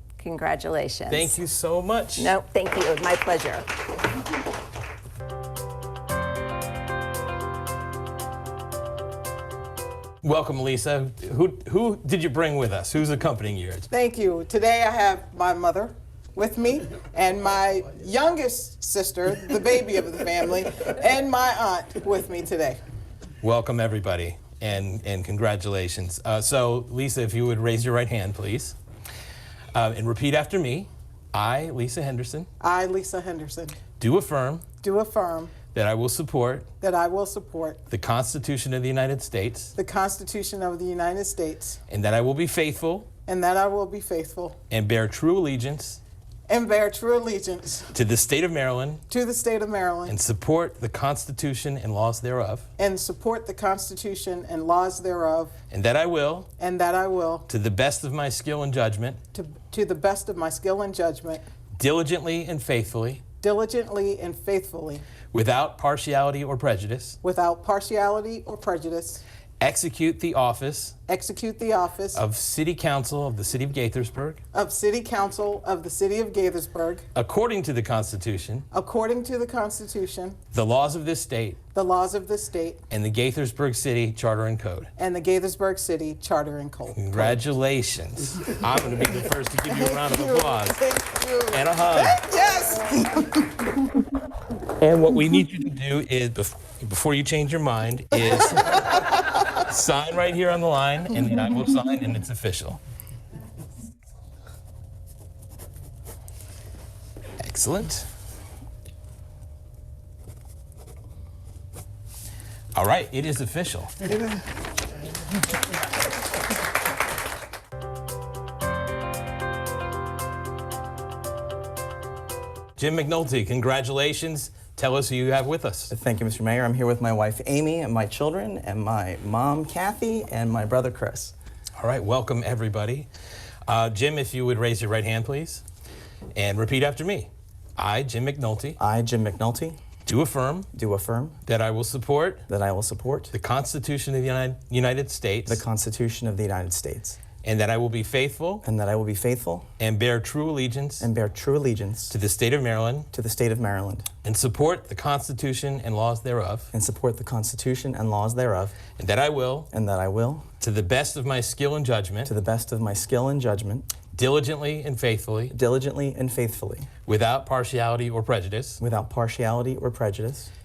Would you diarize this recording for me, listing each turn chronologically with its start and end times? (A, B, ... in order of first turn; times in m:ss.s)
0:00.2-0:01.1 A
0:01.1-0:02.3 B
0:02.2-0:03.6 A
0:10.2-0:13.9 B
0:13.9-0:22.8 C
0:23.4-0:28.8 B
0:29.7-0:32.5 B
0:32.6-0:33.8 C
0:34.0-0:34.6 B
0:34.8-0:35.5 C
0:35.7-0:36.7 B
0:36.8-0:37.8 C
0:37.9-0:39.7 B
0:39.8-0:41.8 C
0:41.9-0:43.1 B
0:43.3-0:44.6 C
0:44.7-0:46.0 B
0:46.5-0:47.9 C
0:47.9-0:49.0 B
0:49.1-0:50.2 C
0:50.1-0:52.6 B
0:52.8-0:55.5 C
0:55.7-0:56.5 B
0:56.6-0:57.5 C
0:57.5-0:59.2 B
0:59.3-1:01.4 C
1:01.8-1:03.2 B
1:03.4-1:05.0 C
1:05.3-1:07.2 B
1:07.2-1:09.2 C
1:09.6-1:11.0 B
1:11.1-1:12.2 C
1:12.1-1:14.4 B
1:14.5-1:17.0 C
1:17.1-1:18.6 B
1:18.7-1:20.4 C
1:20.5-1:21.6 B
1:21.7-1:22.8 C
1:22.9-1:24.9 B
1:25.0-1:27.4 C
1:26.9-1:30.8 B
1:29.6-1:33.3 C
1:31.5-1:32.2 B
1:34.8-1:42.8 B
1:47.4-1:48.1 B
1:52.7-1:54.1 B
2:02.8-2:05.9 B
2:05.9-2:11.3 D
2:11.8-2:13.1 B
2:13.6-2:15.6 B
2:16.3-2:18.8 B
2:18.8-2:19.8 D
2:20.0-2:20.7 B
2:20.7-2:21.4 D
2:21.4-2:22.4 B
2:22.5-2:23.3 D
2:23.3-2:25.6 B
2:25.5-2:27.2 D
2:27.4-2:28.6 B
2:28.6-2:29.7 D
2:29.8-2:31.1 B
2:31.0-2:32.2 D
2:32.1-2:33.1 B
2:33.1-2:34.1 D
2:34.2-2:36.7 B
2:36.7-2:38.8 D
2:39.0-2:39.7 B
2:39.7-2:40.4 D
2:40.6-2:42.3 B
2:42.2-2:43.9 D
2:44.1-2:45.5 B
2:45.5-2:46.9 D
2:47.0-2:48.8 B
2:48.8-2:50.5 D